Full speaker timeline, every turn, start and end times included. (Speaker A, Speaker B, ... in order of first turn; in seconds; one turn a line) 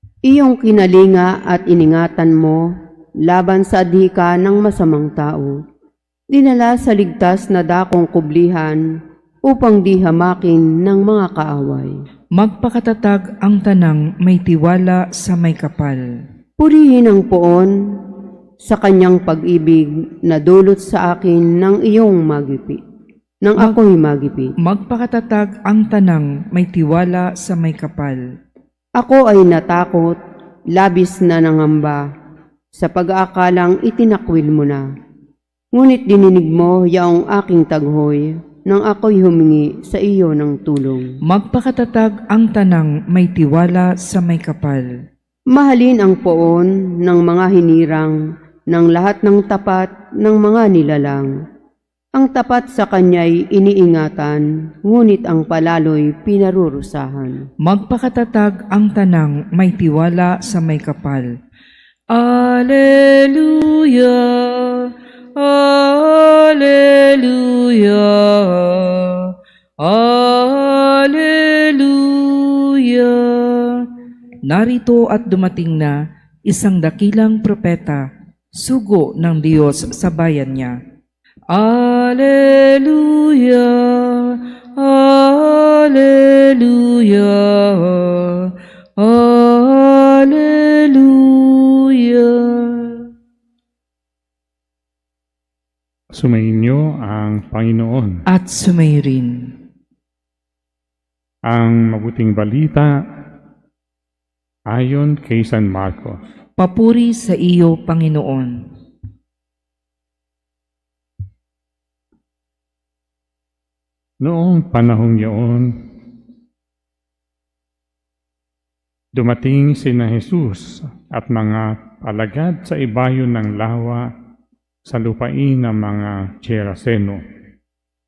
Speaker A: 0.3-2.7
Speaker A: 3.3-5.6
Speaker A: 6.3-8.8
Speaker A: 9.5-11.9
Speaker B: 12.4-16.1
Speaker A: 16.6-17.7
Speaker A: 18.7-22.8
Speaker A: 23.4-24.5
Speaker B: 24.6-28.2
Speaker A: 29.0-30.2
Speaker A: 30.8-32.0
Speaker A: 32.8-34.9
Speaker A: 35.7-41.1
Speaker B: 41.2-44.9
Speaker A: 45.5-51.3
Speaker A: 52.1-57.5
Speaker B: 57.6-61.3
Speaker B: 62.1-73.9
Speaker B: 74.5-80.8
Speaker B: 81.5-93.1
Speaker C: 96.1-98.2
Speaker B: 98.3-99.5
Speaker C: 101.5-102.9
Speaker C: 104.7-106.2
Speaker B: 106.6-108.6
Speaker C: 114.2-115.8
Speaker C: 119.2-124.1
Speaker C: 124.9-127.2